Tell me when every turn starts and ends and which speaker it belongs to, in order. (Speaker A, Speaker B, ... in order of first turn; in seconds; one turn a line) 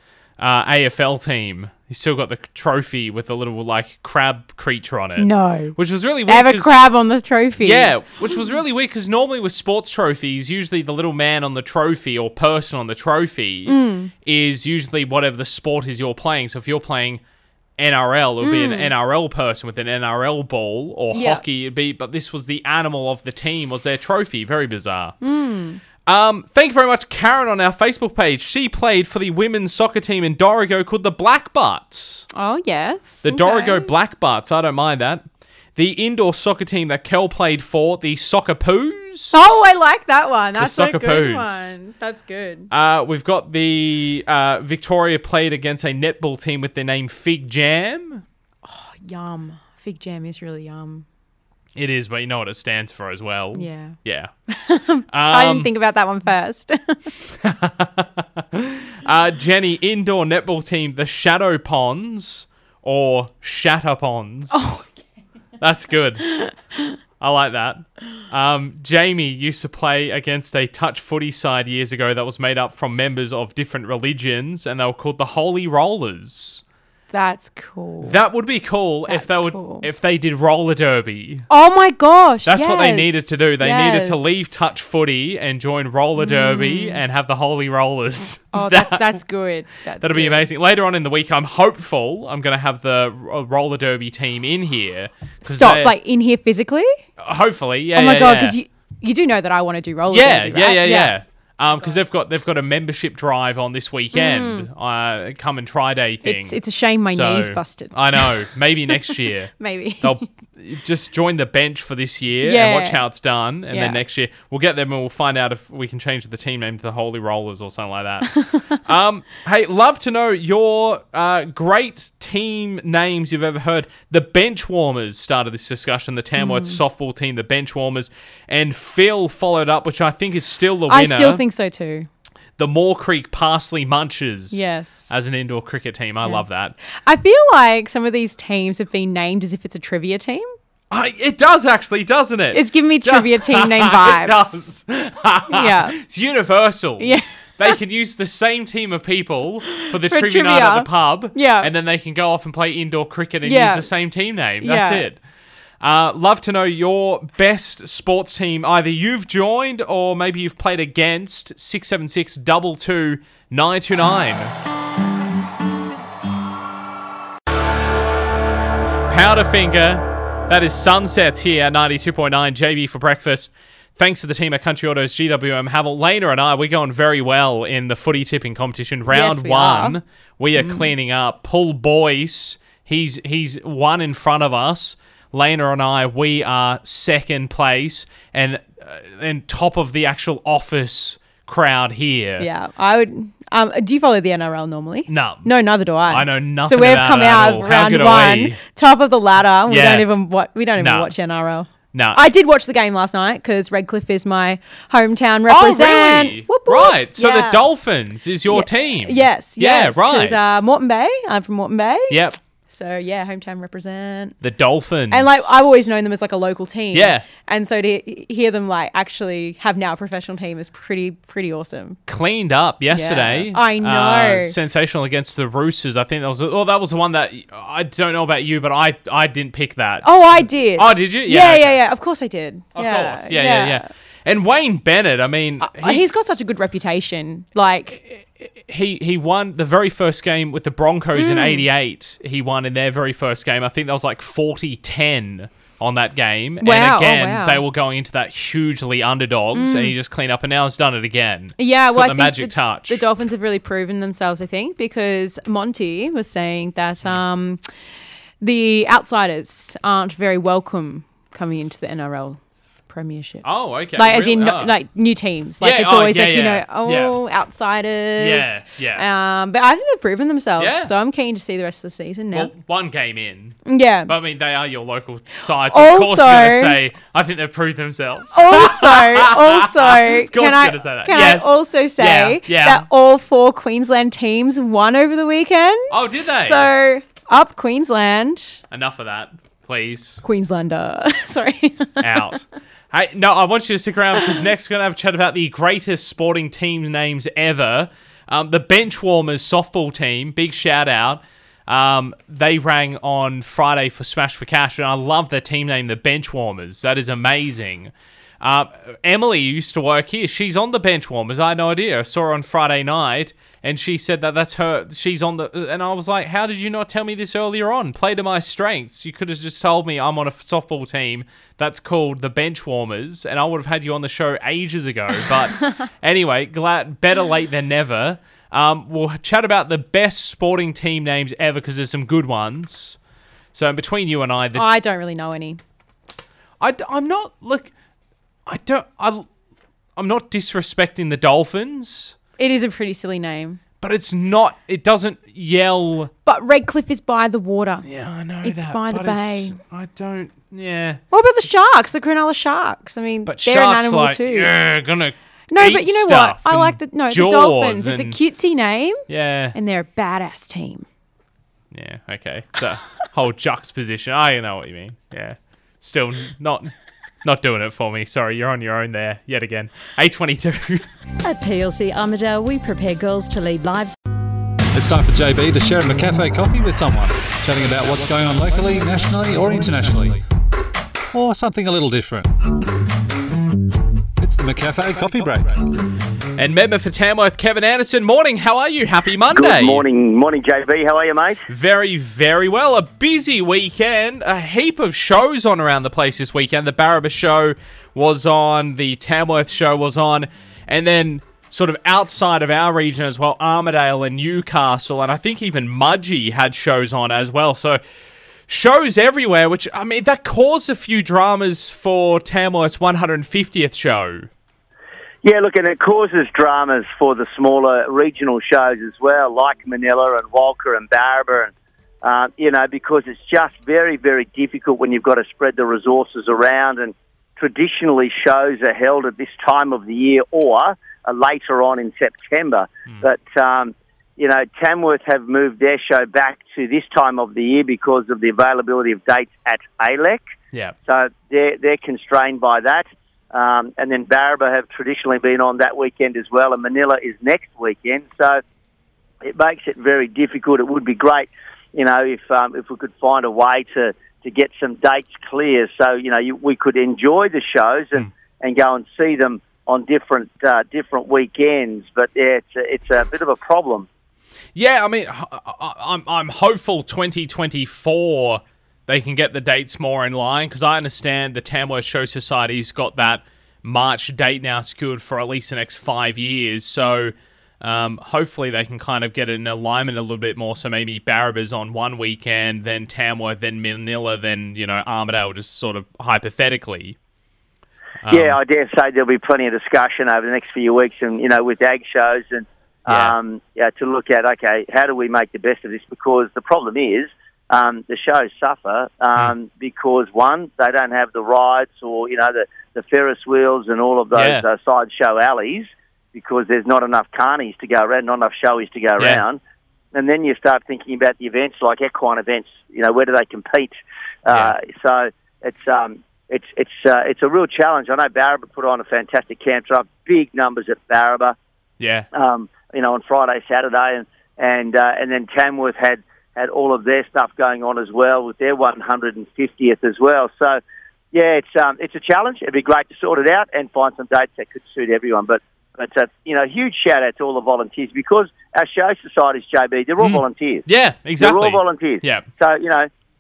Speaker A: 0.4-6.7
Speaker B: 5.2-8.0
Speaker A: 7.6-17.2
Speaker B: 13.7-14.1
Speaker A: 17.8-25.1
Speaker B: 18.4-18.9
Speaker B: 21.1-21.4
Speaker B: 25.2-25.8
Speaker A: 26.1-32.3
Speaker B: 32.3-33.9
Speaker A: 33.2-35.2
Speaker A: 35.8-39.4
Speaker B: 39.3-42.7
Speaker A: 40.6-41.8
Speaker A: 42.7-48.2
Speaker B: 48.6-51.0
Speaker A: 51.8-54.3
Speaker B: 53.5-54.0
Speaker B: 54.5-57.1
Speaker A: 55.1-55.7
Speaker A: 57.3-64.7
Speaker B: 64.5-64.9
Speaker A: 65.6-66.3
Speaker B: 66.3-66.8
Speaker A: 67.2-76.6
Speaker B: 77.1-78.2
Speaker A: 78.0-81.5
Speaker B: 79.1-79.9
Speaker B: 81.5-84.3
Speaker A: 82.5-89.2
Speaker B: 86.2-87.0
Speaker B: 88.5-90.5
Speaker A: 90.0-95.9
Speaker B: 95.4-96.9
Speaker A: 97.2-98.6
Speaker B: 98.0-101.1
Speaker A: 100.1-106.6
Speaker B: 104.1-104.7
Speaker B: 106.2-110.2
Speaker A: 107.1-131.4
Speaker B: 112.4-113.1
Speaker B: 113.7-114.0
Speaker B: 118.3-118.6
Speaker B: 126.4-126.8
Speaker B: 130.9-132.1
Speaker A: 132.6-136.7
Speaker B: 134.5-135.1
Speaker B: 136.2-140.5
Speaker A: 140.9-155.2
Speaker B: 142.5-144.7
Speaker B: 145.5-146.0
Speaker B: 147.0-147.8
Speaker B: 149.9-151.7
Speaker B: 153.4-153.9
Speaker B: 154.6-155.1
Speaker A: 155.8-164.5
Speaker A: 169.1-192.5
Speaker B: 179.1-180.0
Speaker B: 180.6-180.9
Speaker B: 192.4-207.7
Speaker A: 195.1-195.5
Speaker A: 196.1-198.6
Speaker A: 199.7-200.1
Speaker A: 200.8-201.1
Speaker A: 201.9-202.2
Speaker A: 205.5-210.6
Speaker B: 208.5-214.4
Speaker A: 212.1-212.4
Speaker A: 214.4-215.9
Speaker B: 215.1-222.0
Speaker A: 216.9-217.3
Speaker A: 222.1-231.8
Speaker B: 222.9-224.6
Speaker B: 230.0-233.9
Speaker A: 232.8-236.0
Speaker B: 235.6-238.0
Speaker A: 237.9-253.0
Speaker B: 241.2-241.7
Speaker B: 246.6-247.6
Speaker B: 249.5-249.9
Speaker B: 251.6-257.6
Speaker B: 258.4-272.5
Speaker A: 263.4-264.7
Speaker A: 265.6-267.2
Speaker A: 268.2-269.1
Speaker A: 270.6-270.9
Speaker A: 272.3-282.9
Speaker B: 273.6-274.1
Speaker B: 275.7-276.8
Speaker B: 278.3-288.6
Speaker A: 285.9-286.7
Speaker A: 288.7-290.2
Speaker B: 290.2-292.2
Speaker A: 292.0-333.0
Speaker A: 333.5-334.7
Speaker B: 334.5-335.6
Speaker A: 336.6-337.7
Speaker A: 338.5-339.3
Speaker A: 340.0-342.2
Speaker B: 342.4-343.6
Speaker A: 343.8-346.1
Speaker B: 346.2-347.9
Speaker A: 347.9-351.9
Speaker B: 348.4-349.6
Speaker B: 351.1-354.6
Speaker A: 353.3-358.2
Speaker B: 355.5-359.0
Speaker A: 359.1-359.6
Speaker B: 359.5-360.9
Speaker A: 361.7-366.7
Speaker A: 367.2-370.9
Speaker C: 371.3-373.9
Speaker D: 374.7-380.2
Speaker D: 381.1-382.5
Speaker D: 384.2-385.6
Speaker A: 386.4-389.8
Speaker E: 389.3-391.5
Speaker A: 391.5-407.8
Speaker A: 408.5-414.3
Speaker E: 415.2-421.5
Speaker E: 422.0-440.2
Speaker E: 440.9-448.4
Speaker E: 449.2-463.9
Speaker A: 464.6-487.0
Speaker A: 488.0-488.4
Speaker E: 488.1-509.4
Speaker A: 492.9-493.1
Speaker A: 504.2-504.4
Speaker E: 509.9-513.7
Speaker E: 514.2-521.4
Speaker A: 521.8-522.1
Speaker E: 522.1-530.6
Speaker E: 531.1-540.6
Speaker A: 540.0-542.2
Speaker E: 541.2-542.9